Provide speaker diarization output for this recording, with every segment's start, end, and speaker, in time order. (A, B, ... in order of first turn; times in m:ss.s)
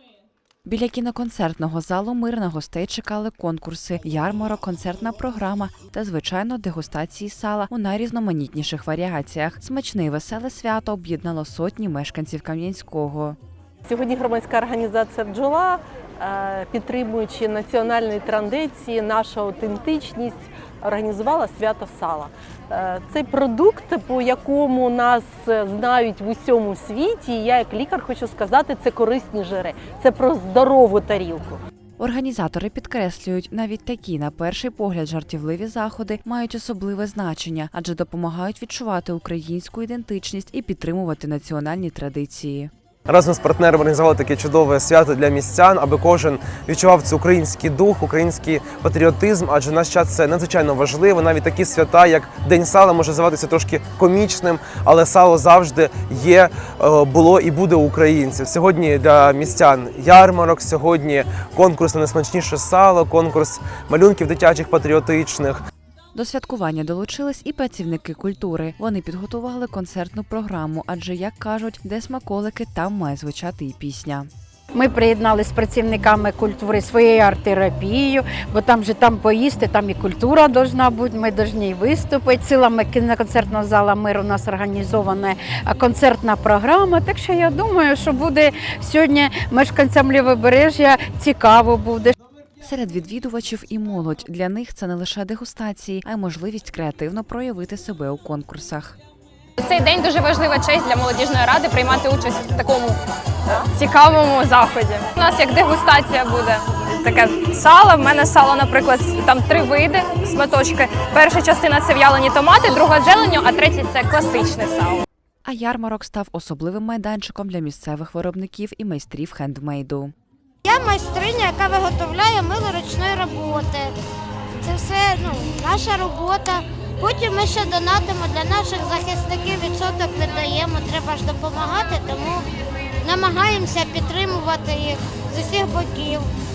0:00.6-0:13.4 A
0:13.9-0:31.6 B
0:32.0-0:42.7 A
0:43.1-1:05.6 C
1:06.1-1:14.3 A
1:14.7-1:32.2 D
1:32.6-1:39.0 A
1:39.6-1:43.0 E
1:43.6-1:55.1 E
1:55.4-2:00.1 A
2:00.7-2:03.9 F
2:04.6-2:12.4 F
2:13.0-2:16.2 F